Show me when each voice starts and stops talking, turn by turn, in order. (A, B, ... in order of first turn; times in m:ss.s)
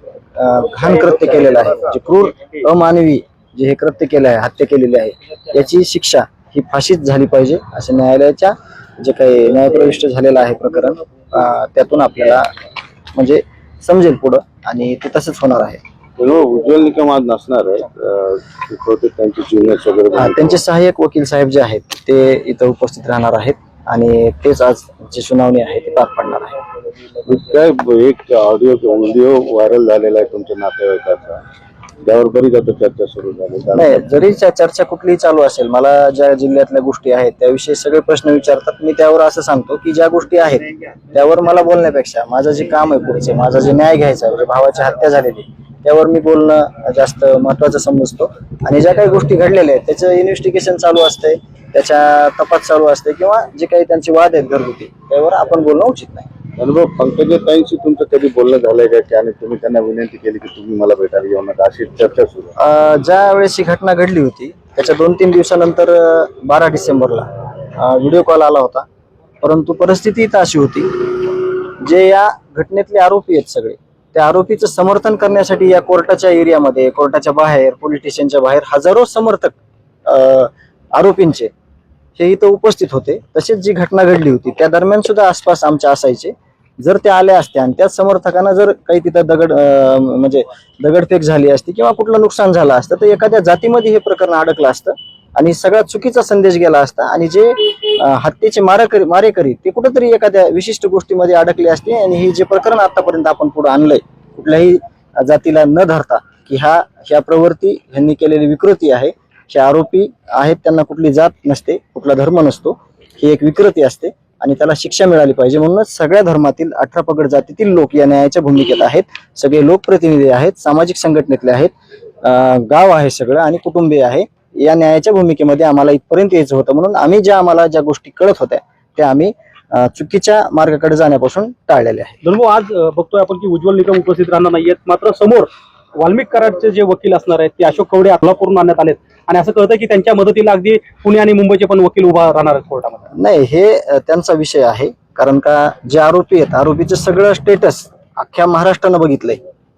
0:00.4-0:12.5 A
0:13.1-0:15.8 A
0:16.2-0:20.6 B
0:20.2-0:26.6 A
0:27.3-0:31.4 B
0:32.0-0:34.0 B
0:33.8-0:56.3 A
0:56.6-1:02.5 B
1:02.6-1:08.9 A
1:09.4-1:21.5 A
1:22.2-2:12.2 A
2:12.2-2:23.1 C
2:23.1-2:29.4 A